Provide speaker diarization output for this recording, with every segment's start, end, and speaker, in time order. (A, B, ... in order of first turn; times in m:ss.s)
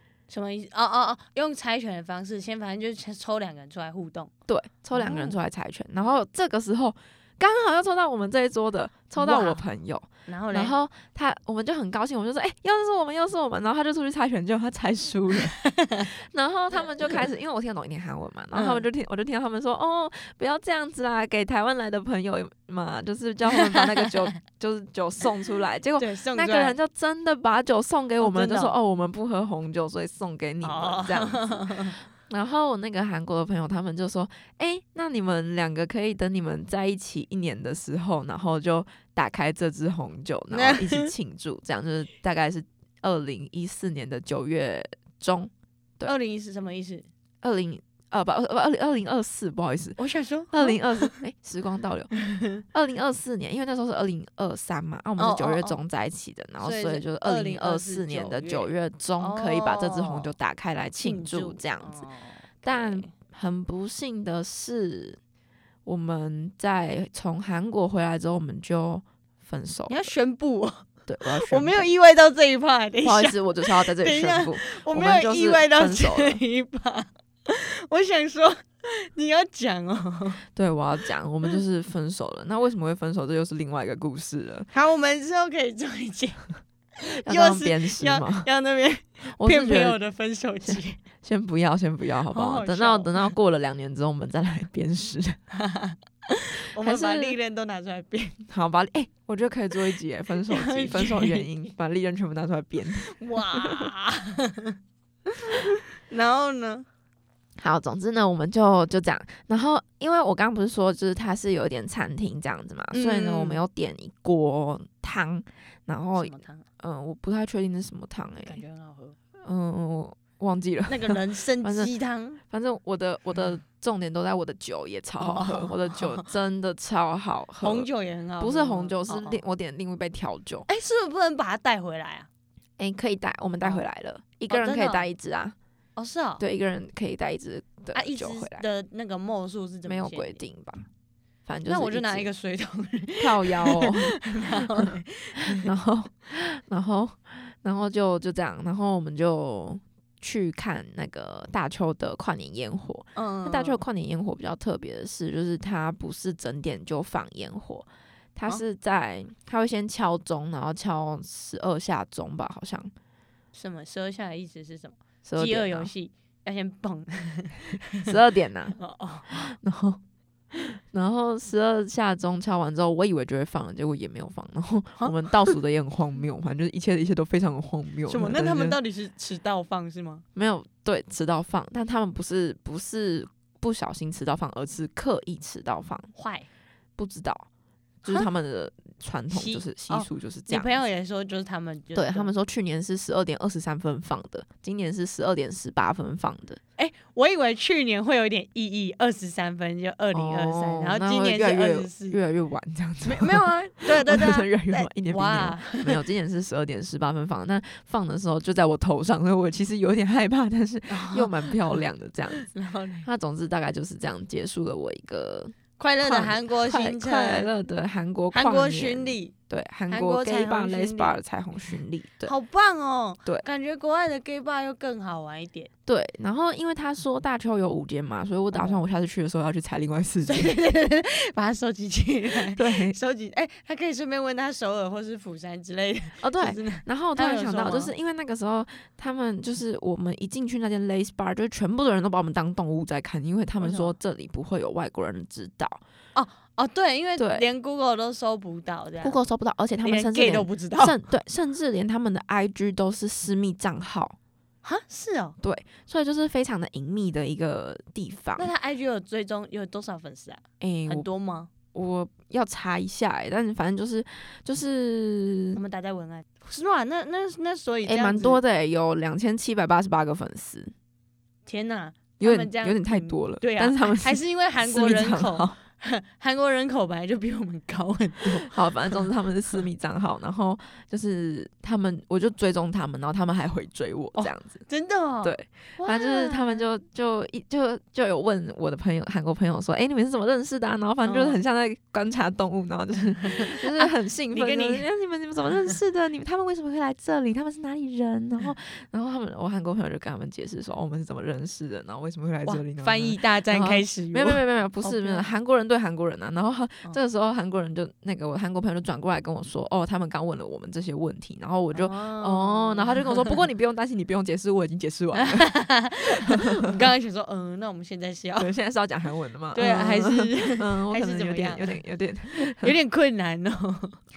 0:00.3-0:04.3 A
0:04.5-0:46.1 B
0:04.9-0:05.4 A
0:09.2-0:09.6 A
0:10.2-0:10.7 A
0:15.6-0:16.1 A
0:18.5-0:18.8 A
0:23.5-0:24.4 A
0:26.0-0:26.8 A
0:28.2-0:28.7 A
0:30.6-0:32.0 A
0:40.5-0:41.1 A
0:46.0-0:47.1 A
0:47.4-0:50.0 B
0:50.0-0:51.2 A
0:50.5-0:52.1 B
0:52.2-0:52.6 A
0:52.7-1:02.0 B
0:55.2-0:55.8 A
0:56.6-1:00.3 A
1:01.0-1:03.1 A
1:02.6-1:05.2 B
1:05.8-1:10.1 B
1:09.9-1:20.4 A
1:11.1-1:11.9 B
1:13.0-1:16.4 B
1:20.5-1:24.7 B
1:24.7-1:31.0 A
1:27.1-1:28.5 B
1:29.4-1:30.0 B
1:30.6-1:35.4 B
1:32.3-1:33.3 A
1:35.5-1:36.0 A
1:36.5-1:38.4 A
1:36.8-1:37.4 B
1:38.5-1:43.9 B
1:40.4-1:41.4 A
1:43.1-1:44.8 A
1:45.6-1:46.9 A
1:47.6-1:58.6 B
1:52.9-1:53.6 A
1:56.2-1:56.6 A
1:58.4-1:59.2 A
1:59.4-2:01.9 B
2:00.9-2:02.4 A
2:02.5-2:07.9 B
2:05.2-2:06.3 A
2:07.6-2:09.4 A
2:08.4-2:10.7 B
2:10.7-2:12.3 A
2:12.8-2:15.6 B
2:14.5-2:15.1 A
2:16.0-2:16.4 A
2:16.4-2:18.6 B
2:17.9-2:20.4 A
2:19.8-2:20.8 B
2:21.4-2:22.3 B
2:21.7-2:25.6 A
2:23.2-2:24.2 B
2:25.5-2:42.9 B
2:33.1-2:33.8 A
2:43.5-2:48.1 A
2:45.2-2:45.9 B
2:48.0-2:48.8 B
2:48.8-2:49.6 A
2:49.3-2:50.0 B
2:50.5-2:58.8 B
2:55.0-2:55.6 A
2:58.1-3:00.2 A
3:00.3-3:06.1 B
3:06.1-3:06.5 A
3:07.0-3:07.5 B
3:08.0-3:10.7 B
3:09.3-3:12.3 A
3:11.9-3:16.6 B
3:16.8-3:22.2 A
3:20.1-3:32.5 B
3:23.0-3:26.0 A
3:30.9-3:31.8 A
3:32.3-3:33.1 A
3:33.0-3:42.3 B
3:35.8-3:37.5 A
3:38.3-3:39.3 A
3:39.9-3:41.2 A
3:42.2-3:45.7 A
3:45.9-3:50.5 B
3:48.5-3:48.8 A
3:50.3-3:57.9 A
3:52.5-3:53.0 B
3:56.2-4:05.8 B
4:03.6-4:03.9 A
4:06.1-4:09.2 A
4:07.2-4:07.4 B
4:09.0-4:14.2 B
4:09.8-4:11.0 A
4:14.6-4:15.4 A
4:15.4-4:18.5 B
4:18.4-4:21.5 A
4:20.6-4:21.1 B
4:21.7-4:25.6 B
4:25.5-4:28.4 A
4:27.8-4:30.7 B
4:31.4-4:39.0 A
4:32.2-4:35.6 B
4:38.2-4:44.6 B
4:44.2-4:46.7 A
4:45.2-5:15.5 B
4:51.0-4:51.4 A
4:53.2-4:54.9 A
5:02.4-5:05.2 A
5:11.7-5:13.4 A
5:15.1-5:18.5 A
5:16.3-5:16.8 B
5:18.4-5:22.8 B
5:19.5-5:21.8 A
5:22.3-5:24.0 A